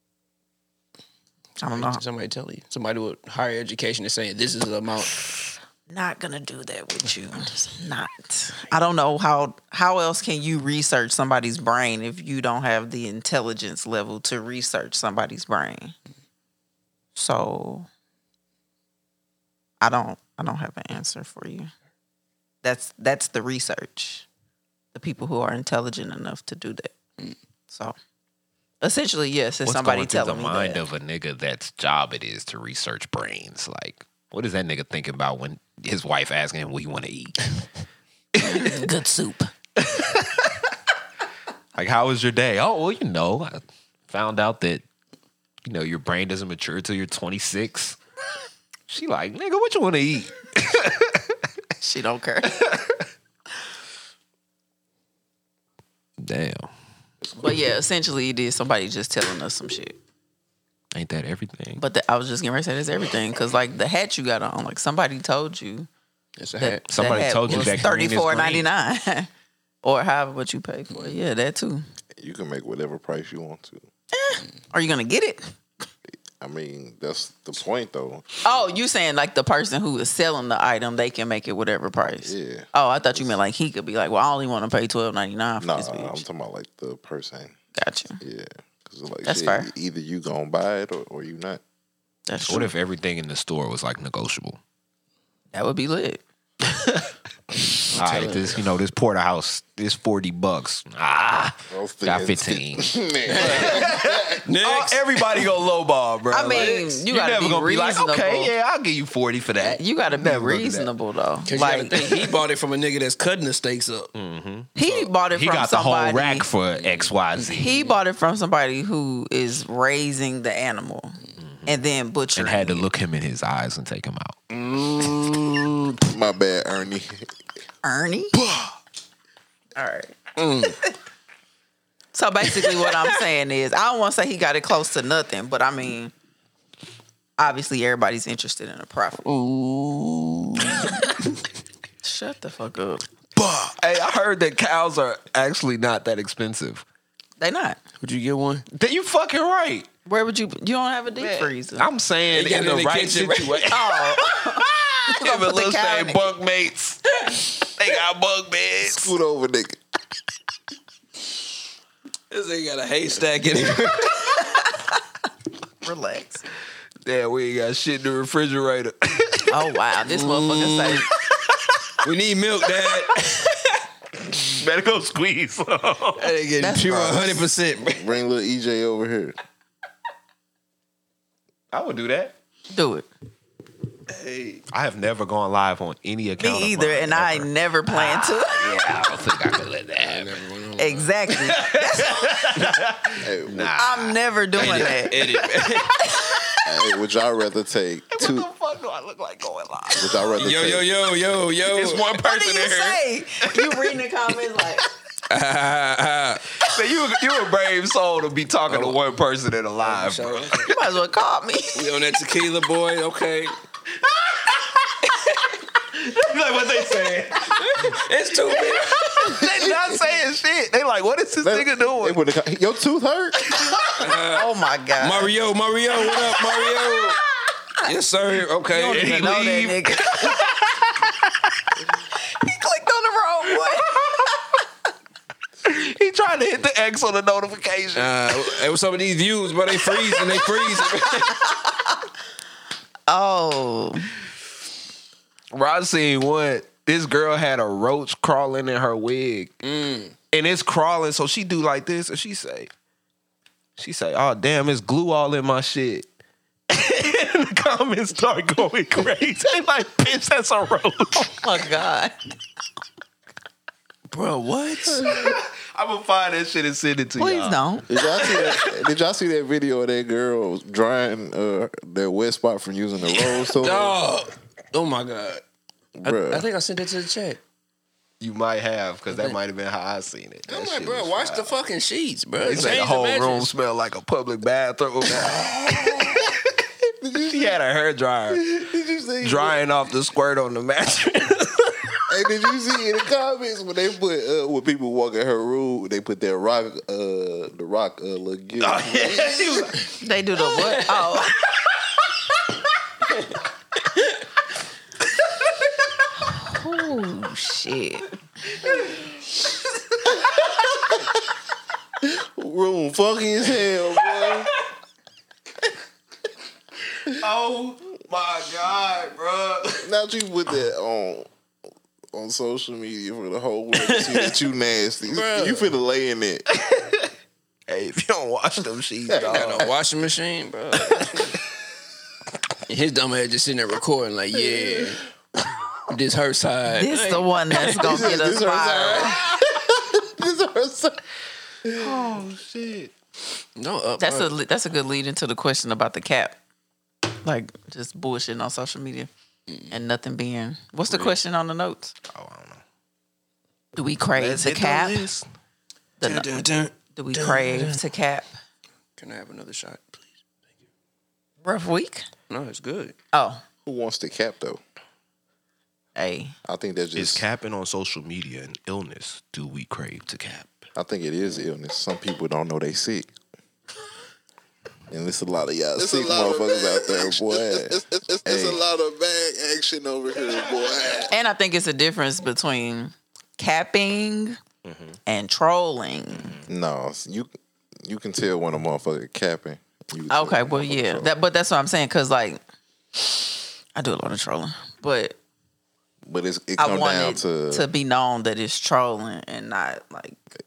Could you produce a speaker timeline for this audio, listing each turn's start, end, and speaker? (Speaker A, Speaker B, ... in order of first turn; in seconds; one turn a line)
Speaker A: 1.6-2.0
Speaker B: 1.7-5.2
Speaker A: 5.9-15.9
Speaker A: 17.1-17.9
Speaker A: 19.8-21.7
Speaker A: 22.6-24.2
Speaker A: 24.9-26.9
Speaker A: 27.7-27.9
Speaker A: 28.8-30.8
Speaker C: 29.6-37.5
Speaker C: 38.4-38.9
Speaker A: 38.4-39.5
Speaker C: 39.8-40.5
Speaker C: 41.7-44.8
Speaker C: 45.6-48.0
Speaker C: 48.9-51.4
Speaker A: 51.8-52.6
Speaker C: 52.5-53.0
Speaker C: 56.2-56.7
Speaker A: 57.4-60.0
Speaker C: 60.9-61.8
Speaker A: 61.8-65.9
Speaker B: 66.4-67.8
Speaker A: 66.6-69.3
Speaker C: 66.9-68.7
Speaker A: 69.8-71.8
Speaker D: 72.2-73.8
Speaker A: 74.1-75.5
Speaker D: 76.4-78.6
Speaker A: 78.4-86.2
Speaker D: 82.2-83.4
Speaker D: 85.6-87.5
Speaker A: 87.8-88.2
Speaker D: 88.2-91.6
Speaker A: 89.2-89.7
Speaker A: 92.3-92.7
Speaker C: 92.4-94.6
Speaker A: 95.5-96.2
Speaker C: 96.7-97.1
Speaker B: 97.9-98.6
Speaker C: 97.9-110.9
Speaker D: 101.7-104.4
Speaker B: 103.2-105.5
Speaker A: 106.3-108.5
Speaker A: 109.6-112.3
Speaker B: 111.5-114.1
Speaker C: 114.1-117.7
Speaker A: 114.8-116.5
Speaker B: 116.8-117.7
Speaker A: 117.5-122.8
Speaker C: 121.4-121.7
Speaker C: 122.3-124.5
Speaker B: 124.5-125.8
Speaker D: 126.0-127.3
Speaker A: 127.8-128.3
Speaker A: 129.8-130.9
Speaker B: 130.4-130.8
Speaker A: 132.1-136.1
Speaker A: 137.4-139.2
Speaker B: 139.2-141.1
Speaker A: 142.0-143.1
Speaker C: 143.3-146.8
Speaker A: 147.4-147.8
Speaker B: 148.0-148.6
Speaker C: 148.7-149.9
Speaker A: 150.1-151.9
Speaker C: 151.2-159.2
Speaker B: 152.3-153.8
Speaker A: 153.7-156.3
Speaker D: 158.8-159.8
Speaker B: 162.3-164.4
Speaker A: 165.8-166.4
Speaker C: 167.0-169.6
Speaker A: 169.5-171.1
Speaker B: 170.1-171.1
Speaker B: 172.0-173.6
Speaker C: 174.4-176.3
Speaker B: 176.2-178.2
Speaker A: 176.6-177.4
Speaker D: 177.9-179.3
Speaker C: 181.7-182.3
Speaker A: 182.7-183.1
Speaker C: 184.1-190.4
Speaker A: 186.4-188.9
Speaker B: 190.0-191.1
Speaker A: 190.8-192.7
Speaker C: 191.3-195.4
Speaker D: 193.2-193.7
Speaker A: 193.8-195.2
Speaker B: 194.5-196.0
Speaker A: 196.0-196.6
Speaker D: 196.6-198.5
Speaker C: 198.1-200.3
Speaker D: 199.9-200.9
Speaker B: 200.3-202.1
Speaker C: 201.6-204.0
Speaker A: 202.2-204.9
Speaker B: 205.3-206.4
Speaker C: 206.6-210.8
Speaker B: 208.7-209.0
Speaker B: 209.8-210.7
Speaker A: 210.7-211.9
Speaker B: 211.7-213.6
Speaker C: 214.0-215.0
Speaker B: 215.1-215.5
Speaker C: 215.9-218.0
Speaker B: 217.5-219.4
Speaker C: 218.6-222.2
Speaker D: 219.2-220.1
Speaker D: 221.4-223.6
Speaker C: 223.6-224.0
Speaker B: 223.9-227.2
Speaker A: 224.3-225.3
Speaker A: 226.5-227.8
Speaker B: 227.8-229.5
Speaker A: 228.7-230.4
Speaker C: 228.8-231.3
Speaker A: 232.2-234.5
Speaker C: 235.6-238.6
Speaker B: 237.9-241.4
Speaker A: 241.3-242.0
Speaker A: 243.1-244.2
Speaker C: 245.5-249.5
Speaker B: 249.6-250.2
Speaker C: 250.3-252.7
Speaker C: 253.8-256.1
Speaker C: 256.7-261.4
Speaker A: 261.4-262.1
Speaker B: 264.1-265.2
Speaker C: 264.9-268.8
Speaker A: 267.2-267.9
Speaker D: 267.9-274.0
Speaker B: 273.1-275.4
Speaker D: 276.0-276.5
Speaker B: 276.0-277.4
Speaker C: 278.2-281.5
Speaker B: 279.1-279.4
Speaker B: 280.5-283.5
Speaker C: 282.4-286.4
Speaker D: 287.0-287.6
Speaker C: 287.2-288.7
Speaker D: 288.3-289.6
Speaker C: 289.2-291.9
Speaker D: 292.1-299.8
Speaker C: 298.6-299.9
Speaker A: 300.0-301.6
Speaker A: 306.2-308.1
Speaker C: 308.5-309.1
Speaker D: 312.0-314.5
Speaker C: 314.1-314.5
Speaker C: 317.1-319.9
Speaker D: 319.8-321.3
Speaker D: 322.1-326.4
Speaker B: 323.8-324.4
Speaker B: 325.1-325.7
Speaker C: 326.5-327.1
Speaker C: 327.7-329.7
Speaker D: 329.1-329.7
Speaker B: 329.1-331.4
Speaker C: 330.9-331.1
Speaker B: 332.6-335.0
Speaker B: 335.9-338.0
Speaker A: 336.7-339.2
Speaker D: 337.8-341.0
Speaker C: 341.7-342.9
Speaker D: 341.7-342.0
Speaker B: 343.6-344.3
Speaker A: 344.0-346.4
Speaker A: 347.2-349.1
Speaker A: 349.7-351.9
Speaker C: 352.1-352.6
Speaker A: 353.7-355.1
Speaker C: 354.1-355.2
Speaker A: 356.0-358.3
Speaker B: 356.0-357.8
Speaker B: 359.0-360.2
Speaker A: 361.4-362.1
Speaker B: 362.3-362.9
Speaker A: 363.1-363.4
Speaker D: 363.6-364.6
Speaker A: 365.9-366.3
Speaker D: 366.4-367.2
Speaker C: 366.9-370.7
Speaker D: 370.8-373.1
Speaker D: 374.9-378.6
Speaker E: 375.8-381.1
Speaker D: 380.1-380.7
Speaker A: 381.1-384.4
Speaker C: 384.6-385.0
Speaker A: 385.1-386.4
Speaker C: 386.1-386.5
Speaker D: 386.4-387.3
Speaker D: 387.8-391.1
Speaker A: 390.1-392.4
Speaker A: 393.7-395.2
Speaker D: 396.0-397.7
Speaker A: 396.6-400.2